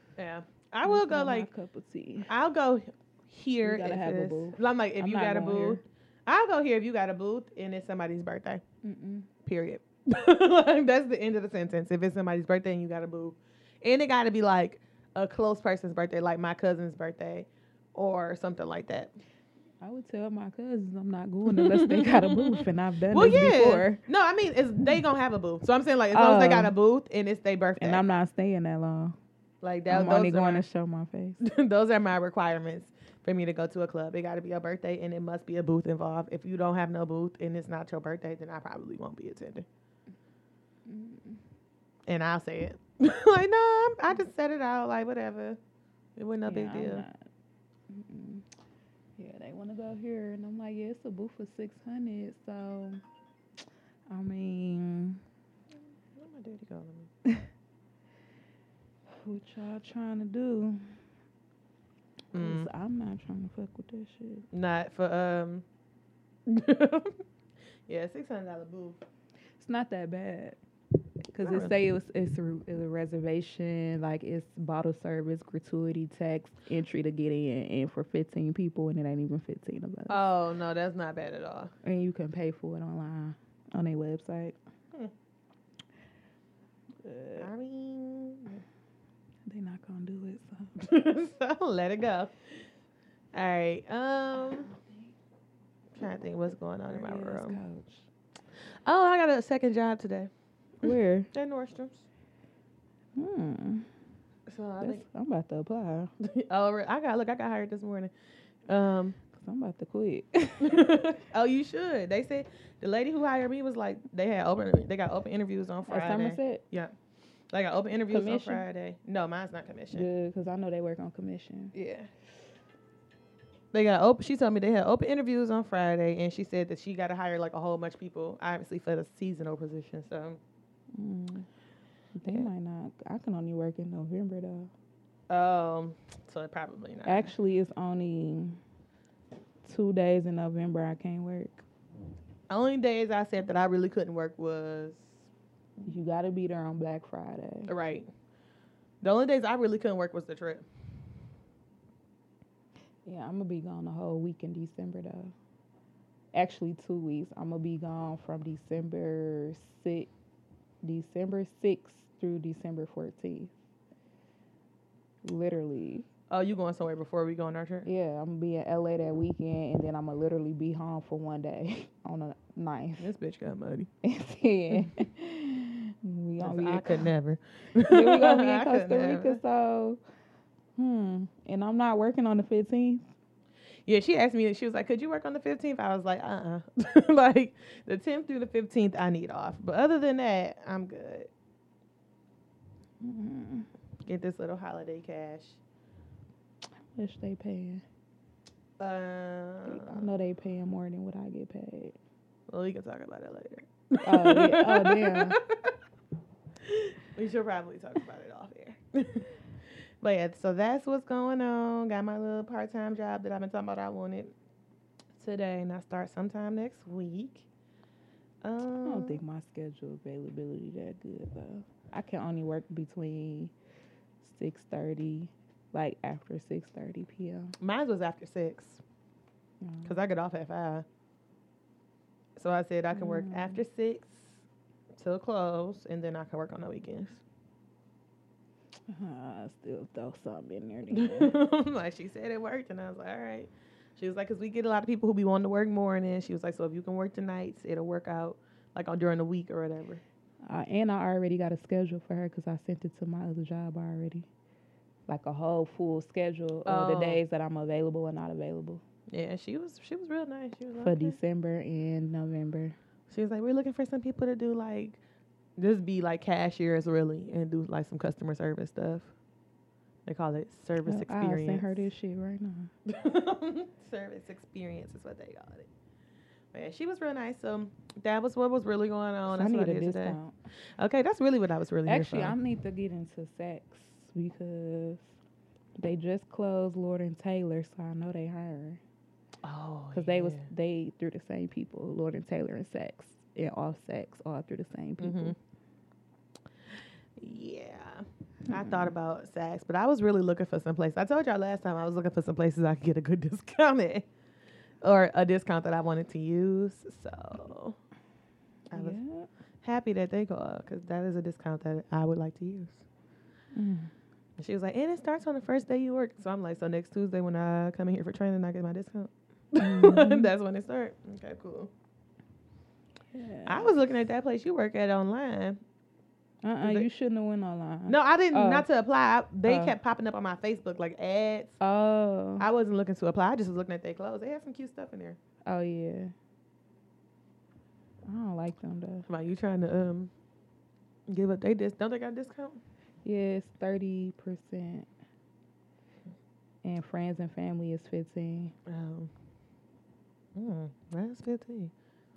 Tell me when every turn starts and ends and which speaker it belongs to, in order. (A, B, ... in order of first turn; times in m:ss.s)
0:00.2-0:01.5 A
0:00.8-0:02.3 B
0:02.3-0:08.6 A
0:03.6-0:05.8 B
0:08.8-0:09.3 B
0:09.4-0:19.1 A
0:19.8-0:24.0 B
0:21.5-0:28.0 A
0:26.1-0:26.7 B
0:27.8-0:29.2 B
0:29.6-0:30.6 A
0:29.9-0:31.4 B
0:31.4-0:39.7 A
0:40.9-0:41.4 B
0:42.1-0:45.6 A
0:46.2-0:47.0 A
0:46.5-0:47.1 B
0:47.9-0:48.4 B
0:49.2-0:53.0 B
0:54.1-0:55.2 B
0:56.2-0:57.1 A
0:59.2-1:00.8 B
1:02.3-1:04.5 B
1:02.3-1:02.7 A
1:04.5-1:05.6 A
1:06.5-1:07.2 A
1:07.9-1:09.0 A
1:09.6-1:10.6 B
1:11.3-1:20.3 B
1:11.4-1:11.7 A
1:20.1-1:21.7 A
1:21.8-1:24.6 B
1:27.0-1:27.5 B
1:27.4-1:28.6 A
1:29.5-1:30.7 B
1:30.8-1:32.3 A
1:33.3-1:34.7 A
1:34.4-1:35.0 B
1:36.0-1:37.6 A
1:36.9-1:38.0 B
1:38.8-1:40.3 A
1:40.8-1:41.3 B
1:40.8-1:42.0 A
1:43.2-1:43.9 B
1:44.5-1:45.0 A
1:44.8-1:46.1 B
1:46.2-1:48.1 A
1:48.7-1:49.2 A
1:49.4-1:51.0 B
1:50.6-1:56.9 A
1:55.9-1:56.6 B
1:57.5-2:00.1 A
1:58.1-1:58.6 B
1:59.9-2:01.7 B
2:01.7-2:02.1 A
2:03.7-2:10.4 A
2:10.9-2:11.5 B
2:12.2-2:14.7 B
2:15.3-2:17.3 A
2:17.1-2:18.6 B
2:19.6-2:21.6 B
2:22.5-2:25.2 A
2:25.8-2:27.7 B
2:27.7-2:28.1 A
2:29.0-2:30.6 A
2:33.1-2:35.3 B
2:36.3-2:40.1 B
2:40.8-2:43.5 B
2:45.2-2:46.1 B
2:46.3-2:47.9 A
2:47.9-2:53.1 B
2:53.0-2:53.9 A
2:54.0-2:57.0 B
2:56.4-2:59.4 A
2:57.9-3:00.0 B
3:00.8-3:03.1 B
3:03.9-3:11.3 A
3:13.0-3:13.7 B
3:14.1-3:15.6 A
3:17.0-3:17.8 B
3:18.8-3:20.0 A
3:19.7-3:22.0 B
3:22.5-3:25.6 A
3:24.0-3:25.4 B
3:26.6-3:29.3 A
3:30.0-3:34.3 A
3:35.2-3:37.4 A
3:38.4-3:39.2 A
3:38.8-3:43.5 B
3:44.2-3:47.5 B
3:47.6-3:48.8 A
3:49.6-3:49.9 B
3:49.8-3:50.8 A
3:52.4-3:54.4 A
3:52.9-3:53.6 B
3:55.0-3:57.2 A
3:58.9-4:01.4 B
4:00.9-4:10.0 A
4:10.5-4:14.3 B
4:15.1-4:18.8 B
4:16.7-4:17.2 A
4:19.1-4:21.2 A
4:20.8-4:22.8 B
4:23.1-4:25.0 A
4:25.6-4:29.1 A
4:30.1-4:31.9 A
4:30.9-4:32.7 B
4:32.9-4:35.7 A
4:36.5-4:40.2 A
4:39.3-4:40.3 B
4:40.8-4:42.4 A
4:41.9-4:45.1 B
4:45.8-4:48.8 B
4:49.4-4:50.5 A
4:49.9-4:55.4 B
4:55.0-4:55.4 A
4:57.2-5:04.0 A
4:58.5-4:58.9 B
5:04.8-5:07.8 A
5:08.7-5:09.0 A
5:08.7-5:09.3 B
5:09.6-5:12.8 A
5:13.6-5:13.9 B
5:14.4-5:21.7 A
5:19.6-5:20.3 B
5:23.1-5:23.8 B
5:23.5-5:25.6 A
5:26.4-5:28.7 B
5:27.9-5:31.6 A
5:29.4-5:29.8 B
5:31.6-5:32.5 B
5:32.4-5:35.2 A
5:35.5-5:36.1 B
5:38.1-5:39.0 B
5:39.1-5:40.1 A
5:41.1-5:42.6 A
5:43.0-5:44.9 B
5:46.6-5:48.5 B
5:48.7-5:49.1 A
5:50.4-5:51.7 A